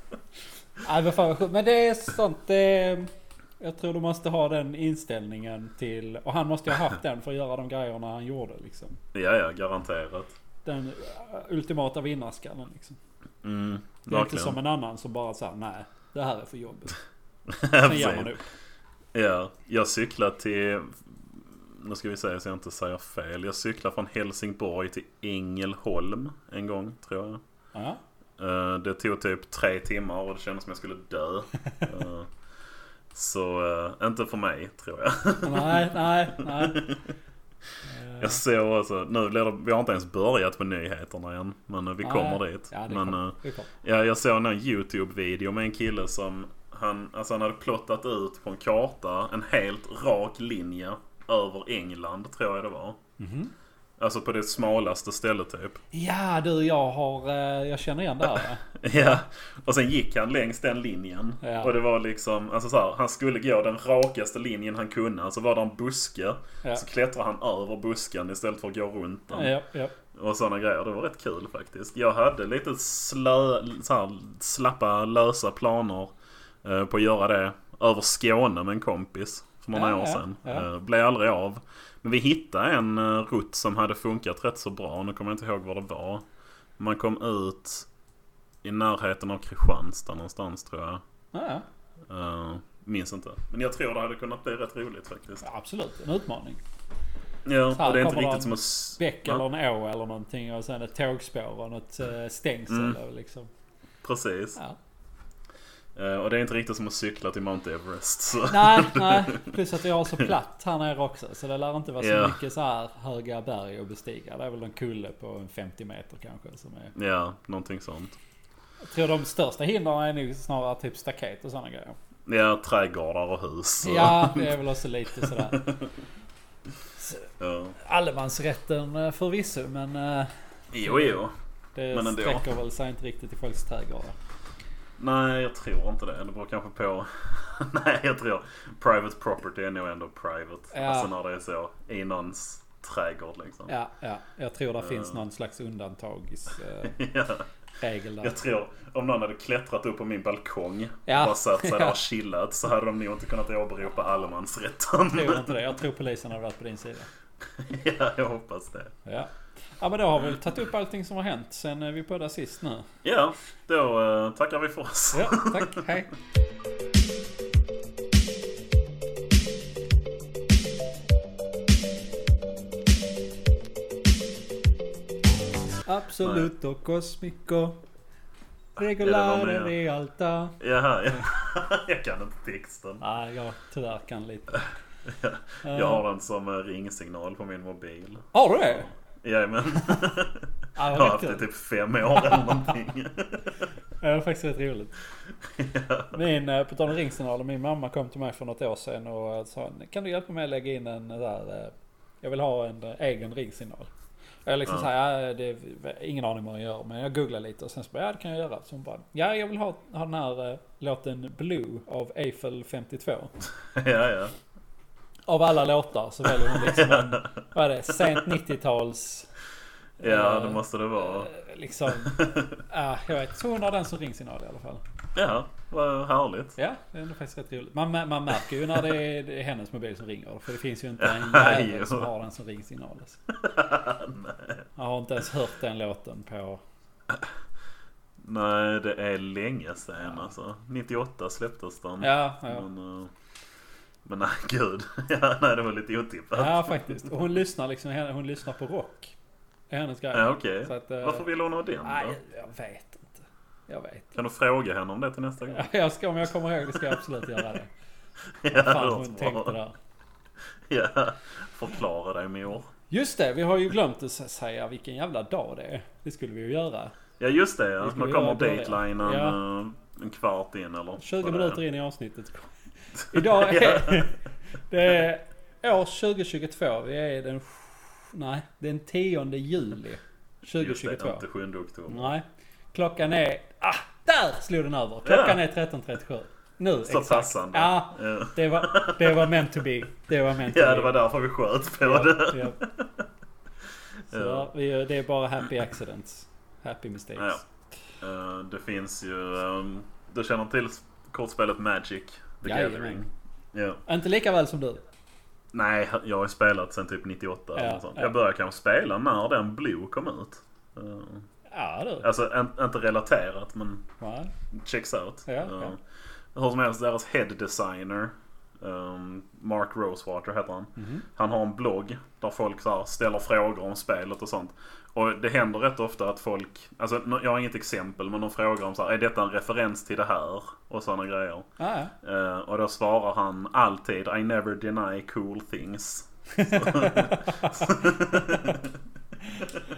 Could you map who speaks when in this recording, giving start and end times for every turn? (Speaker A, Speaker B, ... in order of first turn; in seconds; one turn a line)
Speaker A: 0.8-9.0
Speaker B: 9.1-10.3
Speaker A: 10.7-13.0
Speaker B: 13.4-14.6
Speaker A: 14.1-17.0
Speaker B: 17.5-18.4
Speaker A: 17.8-18.4
Speaker B: 19.1-27.4
Speaker A: 27.7-28.0
Speaker B: 28.4-32.3
Speaker B: 33.1-37.0
Speaker A: 35.4-36.9
Speaker A: 37.9-38.4
Speaker B: 38.2-53.0
Speaker A: 42.0-43.7
Speaker A: 53.2-53.5
Speaker B: 54.0-55.8
Speaker A: 55.9-59.2
Speaker B: 58.8-69.6
Speaker A: 61.4-61.7
Speaker A: 69.3-70.0
Speaker B: 70.1-76.1
Speaker B: 76.6-86.2
Speaker A: 79.7-80.7
Speaker B: 86.8-87.9
Speaker B: 88.6-91.0
Speaker A: 91.3-91.7
Speaker B: 92.1-95.4
Speaker A: 95.4-96.6
Speaker B: 97.5-99.4
Speaker A: 97.7-103.5
Speaker B: 102.7-103.0
Speaker B: 104.0-104.6
Speaker B: 106.0-109.5
Speaker A: 108.4-117.0
Speaker B: 112.0-112.4
Speaker B: 117.0-118.2
Speaker A: 118.8-122.0
Speaker B: 122.3-124.6
Speaker A: 123.8-125.7
Speaker B: 125.2-125.9
Speaker A: 127.0-131.2
Speaker B: 127.4-127.8
Speaker B: 130.7-131.3
Speaker A: 131.8-134.2
Speaker B: 131.9-132.4
Speaker B: 135.0-143.7
Speaker A: 140.7-141.1
Speaker A: 143.7-147.0
Speaker B: 144.8-145.2
Speaker B: 146.8-147.5
Speaker A: 147.8-148.4
Speaker B: 148.2-155.7
Speaker A: 151.1-152.0
Speaker A: 155.1-157.1
Speaker B: 157.4-158.9
Speaker A: 159.1-162.9
Speaker B: 163.0-165.8
Speaker A: 165.1-166.1
Speaker A: 175.9-177.8
Speaker B: 176.2-176.5
Speaker A: 178.8-180.6
Speaker B: 179.0-179.7
Speaker B: 180.6-183.0
Speaker A: 183.0-184.7
Speaker B: 185.1-193.7
Speaker A: 185.6-186.0
Speaker A: 188.3-188.9
Speaker A: 190.8-191.5
Speaker A: 194.0-194.9
Speaker B: 195.4-196.2
Speaker A: 196.1-203.9
Speaker A: 204.5-213.3
Speaker B: 213.6-214.3
Speaker A: 215.3-219.3
Speaker B: 216.4-217.4
Speaker A: 220.0-224.8
Speaker B: 220.0-221.3
Speaker B: 221.9-222.6
Speaker B: 225.2-226.6
Speaker A: 226.6-233.2
Speaker B: 231.0-232.1
Speaker B: 233.3-234.7
Speaker A: 234.8-236.6
Speaker B: 238.2-243.1
Speaker A: 242.0-242.7
Speaker B: 244.1-247.1
Speaker A: 246.3-249.1
Speaker A: 249.7-251.3
Speaker B: 250.1-252.2
Speaker A: 251.8-254.2
Speaker B: 254.2-255.7
Speaker A: 255.5-257.7
Speaker B: 256.7-257.5
Speaker B: 258.4-259.6
Speaker A: 258.5-259.8
Speaker B: 260.7-262.7
Speaker A: 262.9-266.9
Speaker B: 267.2-271.6
Speaker A: 267.8-269.4
Speaker A: 271.0-272.5
Speaker B: 273.0-274.1
Speaker A: 273.1-281.2
Speaker B: 280.6-282.1
Speaker A: 281.9-290.9
Speaker B: 285.1-285.4
Speaker B: 286.9-289.6
Speaker B: 290.5-293.1
Speaker A: 291.9-292.6
Speaker B: 294.1-294.5
Speaker A: 294.1-297.4
Speaker B: 297.2-297.4
Speaker B: 298.0-303.8
Speaker A: 302.4-303.0
Speaker A: 303.9-304.8
Speaker B: 305.5-311.3
Speaker A: 307.6-308.1
Speaker A: 311.5-312.1
Speaker B: 312.0-313.9
Speaker A: 314.0-314.3
Speaker B: 314.5-315.8
Speaker A: 315.3-315.8
Speaker B: 316.3-331.5
Speaker A: 320.8-321.1
Speaker A: 331.6-331.9
Speaker B: 332.0-338.8
Speaker A: 336.4-338.6